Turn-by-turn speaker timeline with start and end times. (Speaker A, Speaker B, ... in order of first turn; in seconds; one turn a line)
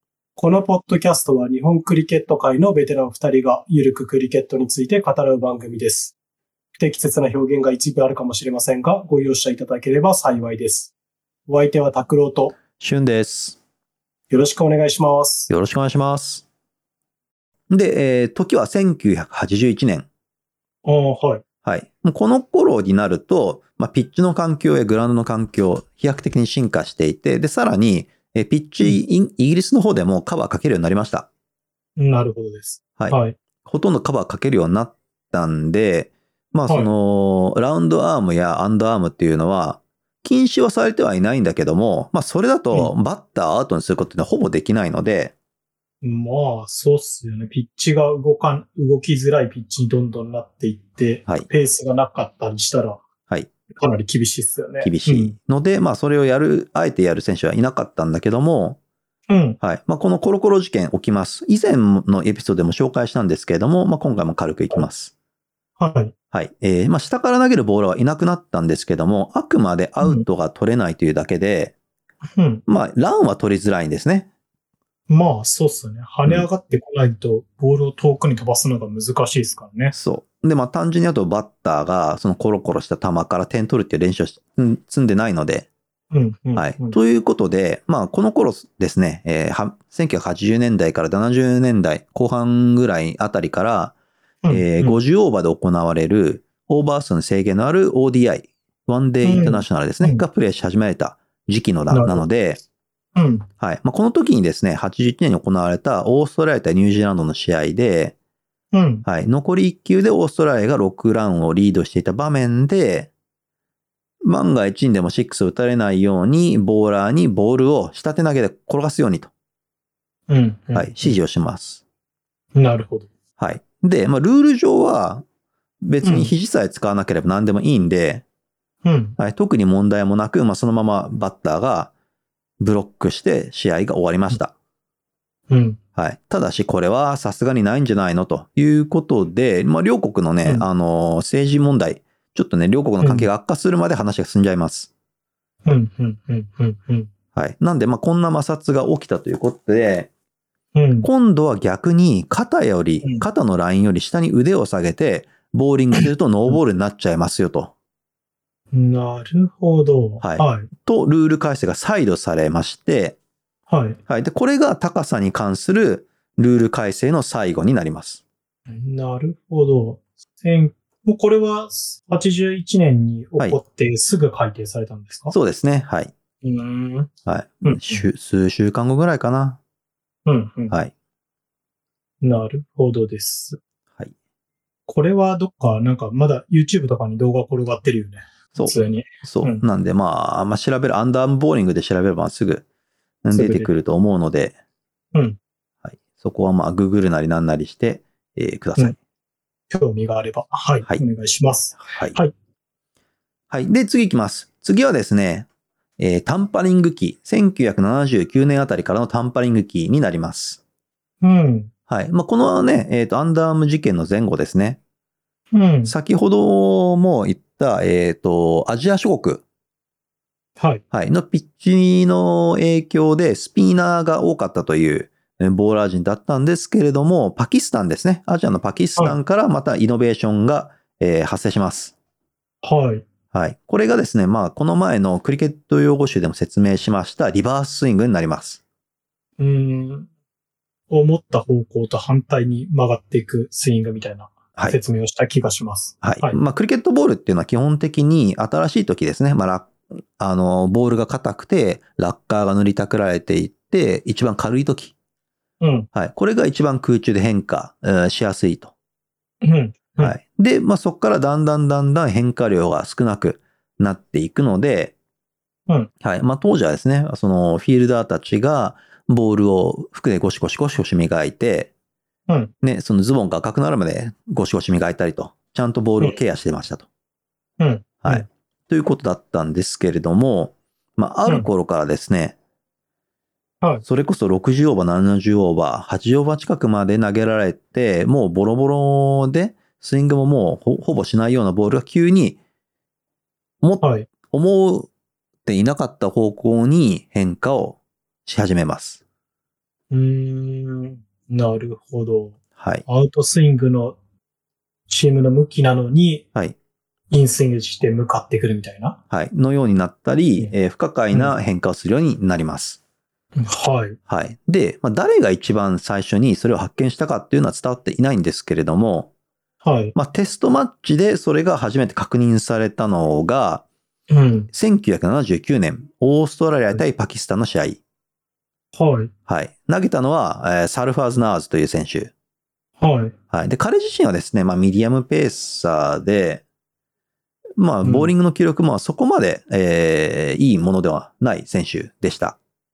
Speaker A: 0.4-6.1
Speaker A: 6.8-10.9
Speaker A: 11.5-12.6
Speaker B: 12.8-13.6
Speaker A: 14.3-15.5
Speaker B: 15.5-16.4
Speaker B: 17.7-20.1
Speaker A: 20.8-21.4
Speaker B: 21.6-31.3
Speaker A: 32.0-33.4
Speaker B: 33.0-45.3
Speaker A: 36.7-36.9
Speaker A: 46.0-53.0
Speaker A: 53.8-55.3
Speaker B: 54.8-58.8
Speaker A: 59.3-59.6
Speaker B: 59.6-65.1
Speaker A: 65.8-66.1
Speaker B: 66.3-71.7
Speaker A: 70.0-70.2
Speaker A: 72.3-72.6
Speaker B: 72.7-74.3
Speaker A: 75.1-79.9
Speaker B: 79.9-85.7
Speaker A: 86.1-87.0
Speaker B: 86.5-93.9
Speaker A: 94.4-95.0
Speaker B: 94.5-102.6
Speaker A: 99.2-100.2
Speaker A: 101.9-102.2
Speaker A: 103.1-103.5
Speaker B: 103.6-108.1
Speaker A: 108.7-109.0
Speaker B: 109.0-113.1
Speaker B: 114.2-119.3
Speaker A: 120.3-121.2
Speaker B: 120.7-121.8
Speaker A: 122.5-123.1
Speaker B: 123.4-125.2
Speaker B: 125.8-128.2
Speaker A: 126.0-126.3
Speaker A: 128.8-129.2
Speaker B: 129.2-131.9
Speaker B: 132.6-134.5
Speaker A: 135.5-135.8
Speaker B: 135.9-144.9
Speaker A: 143.0-143.3
Speaker A: 145.6-147.1
Speaker B: 147.3-150.1
Speaker A: 150.7-151.1
Speaker B: 151.0-157.7
Speaker A: 158.7-160.7
Speaker B: 160.2-163.2
Speaker A: 163.7-164.0
Speaker B: 164.1-168.2
Speaker A: 168.7-175.3
Speaker B: 175.3-176.1
Speaker A: 176.4-177.1
Speaker B: 177.2-179.6
Speaker A: 177.6-178.0
Speaker A: 180.2-180.8
Speaker A: 182.2-183.6
Speaker A: 184.9-189.6
Speaker B: 188.5-192.6
Speaker B: 193.2-194.6
Speaker A: 193.3-193.7
Speaker B: 195.8-198.9
Speaker A: 199.7-202.3
Speaker B: 201.8-202.2
Speaker B: 203.5-205.5
Speaker B: 206.0-210.6
Speaker A: 211.2-211.7
Speaker B: 211.9-214.8
Speaker A: 215.5-215.9
Speaker B: 215.8-219.4
Speaker B: 220.9-231.9
Speaker A: 232.6-233.1
Speaker B: 233.3-238.6
Speaker A: 239.4-240.1
Speaker A: 240.9-246.4
Speaker B: 246.0-254.9
Speaker A: 255.6-255.9
Speaker B: 255.9-258.7
Speaker A: 259.4-260.2
Speaker B: 260.0-264.9
Speaker B: 266.0-271.7
Speaker B: 272.6-276.9
Speaker A: 277.6-278.2
Speaker B: 278.0-282.3
Speaker B: 283.8-292.4
Speaker B: 293.6-294.9
Speaker A: 293.8-294.1
Speaker B: 295.4-299.0
Speaker A: 299.9-304.0
Speaker B: 302.6-302.8
Speaker A: 304.9-306.2
Speaker A: 307.1-309.0
Speaker B: 309.1-312.8
Speaker A: 313.4-314.0
Speaker B: 314.1-319.1
Speaker A: 319.6-319.9
Speaker B: 319.9-323.6
Speaker A: 324.1-324.5
Speaker B: 324.5-327.8
Speaker A: 328.7-329.1
Speaker B: 329.3-332.1
Speaker A: 332.8-333.1
Speaker B: 333.3-336.4
Speaker B: 337.6-342.4
Speaker A: 337.8-338.1